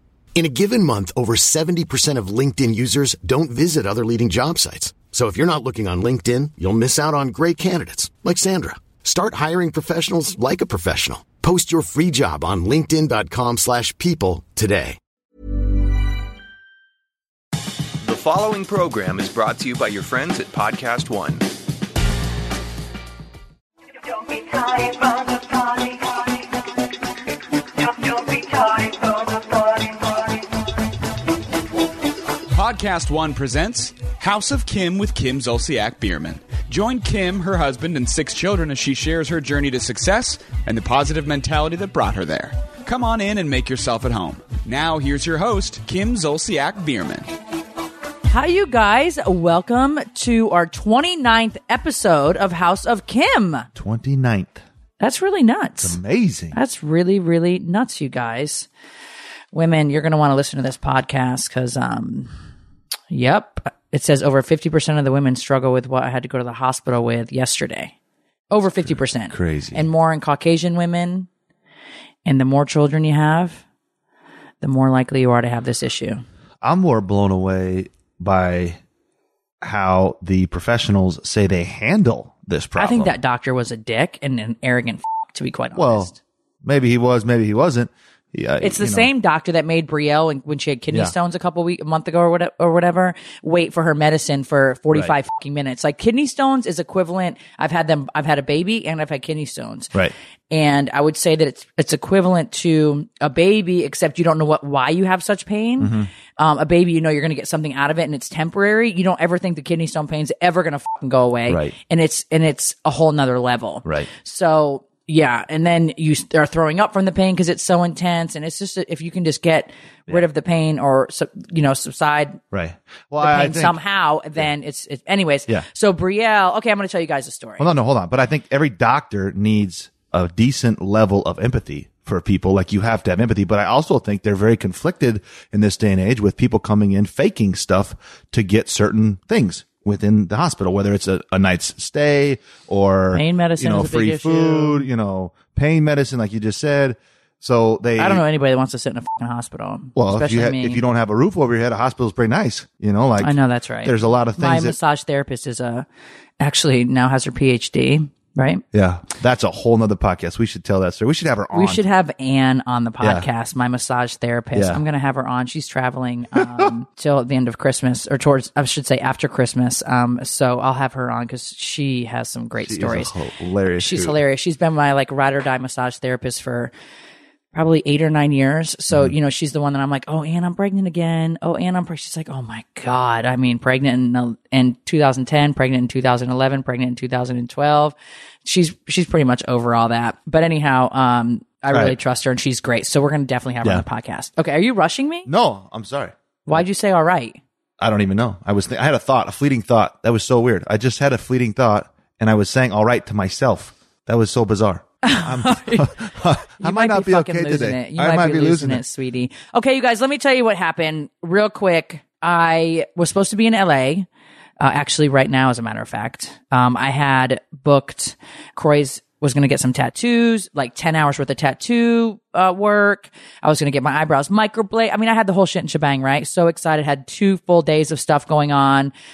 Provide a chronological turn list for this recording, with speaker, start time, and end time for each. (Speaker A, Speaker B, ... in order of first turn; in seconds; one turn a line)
Speaker A: 0.4-15.0
Speaker B: 18.0-21.5
Speaker C: 32.5-47.3
Speaker D: 48.3-53.7
Speaker E: 53.8-54.6
Speaker D: 55.0-56.0
Speaker E: 55.8-56.6
Speaker D: 56.5-58.7
Speaker D: 59.5-62.3
Speaker D: 63.1-67.9
Speaker D: 68.5-71.3
Speaker E: 68.8-69.8
Speaker D: 72.2-73.6
Speaker D: 74.6-76.2
Speaker E: 76.6-78.8
Speaker E: 79.6-83.2
Speaker D: 82.8-86.2
Speaker E: 85.8-86.1
Speaker E: 86.6-89.1
Speaker D: 88.6-99.9
Speaker D: 100.5-122.4
Speaker E: 105.8-106.1
Speaker E: 111.5-111.8
Speaker E: 122.5-123.8
Speaker D: 123.2-127.7
Speaker E: 127.6-148.2
Speaker D: 143.1-144.9
Speaker D: 148.0-150.8
Speaker E: 150.0-154.8
Speaker D: 153.2-155.9
Speaker D: 156.4-158.6
Speaker E: 158.7-161.8
Speaker D: 161.5-173.1
Speaker E: 163.0-163.3
Speaker E: 164.6-164.8
Speaker E: 166.3-166.7
Speaker E: 172.6-174.2
Speaker D: 173.8-176.7
Speaker D: 177.5-195.3
Speaker E: 191.7-191.9
Speaker E: 195.3-196.6
Speaker D: 196.5-197.4
Speaker E: 197.8-208.8
Speaker D: 205.0-205.9
Speaker D: 206.6-214.1
Speaker D: 214.6-228.9